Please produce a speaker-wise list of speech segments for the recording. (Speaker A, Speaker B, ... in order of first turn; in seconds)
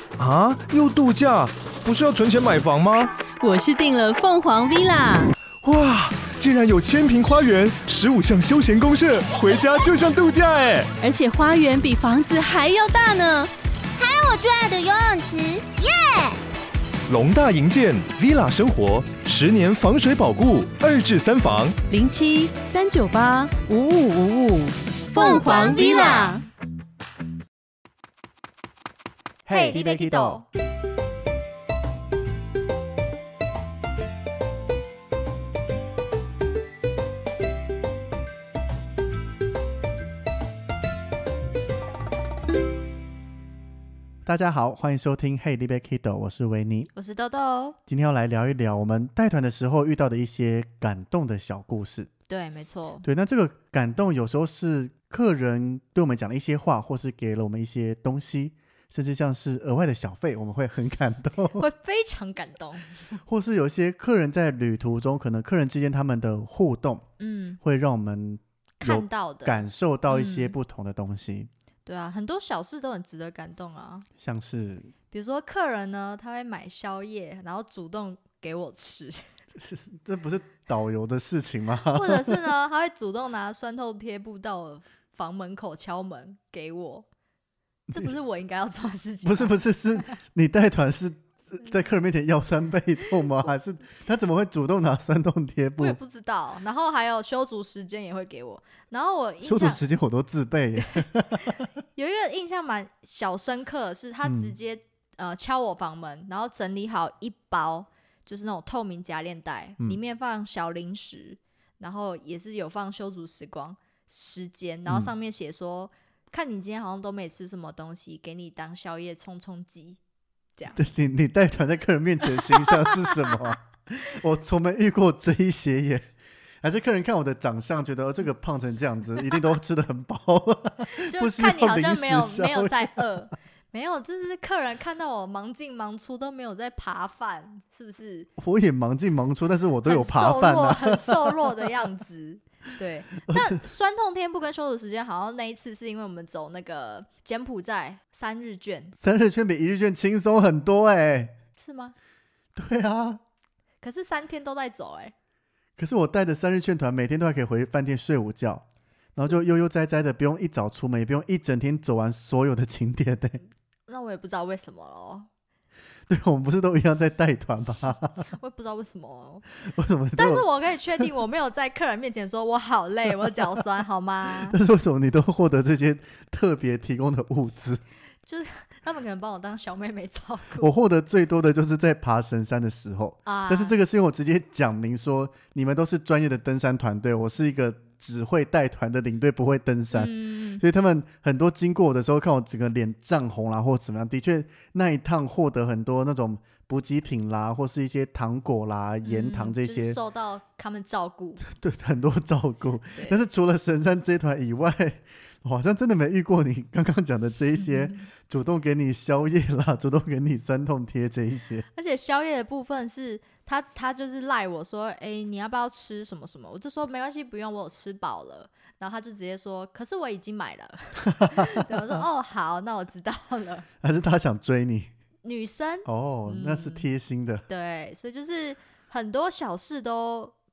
Speaker A: 0.2-3.1, 5.6-10.9, 17.1-21.8
Speaker B: 3.4-5.3, 11.0-13.5, 21.9-26.4
Speaker C: 14.0-16.4, 25.1-26.4
Speaker D: 25.3-26.4, 29.5-30.4, 46.9-47.8, 52.3-53.0, 61.5-63.2, 67.2-67.6, 68.8-70.5, 71.8-74.1, 75.1-79.3, 81.8-87.0, 87.9-90.1, 95.8-99.8, 101.0-120.0, 122.4-123.4, 130.9-138.3, 139.8-148.9, 151.6-151.9, 153.8-155.1, 163.9-165.3, 168.3-169.4, 170.2-174.6, 178.2-180.7, 183.2-183.8, 189.9-190.6, 199.0-201.4, 211.7-223.7, 225.2-226.8, 227.5-230.3
Speaker E: 29.4-30.4, 44.2-46.9, 47.9-52.1, 53.0-61.6, 63.2-67.1, 67.6-71.5, 74.2-74.9, 79.5-82.5, 87.9-88.1, 89.2-96.0, 99.4-101.7, 104.2-104.5, 114.9-115.1, 120.7-133.1, 138.4-141.8, 143.3-143.6, 149.0-151.4, 152.5-153.2, 155.8-158.6, 159.2-163.4, 166.1-168.3, 169.6-170.4, 174.4-177.8, 180.6-200.0, 201.4-211.7, 221.0-221.9, 223.8-224.9, 225.8-227.4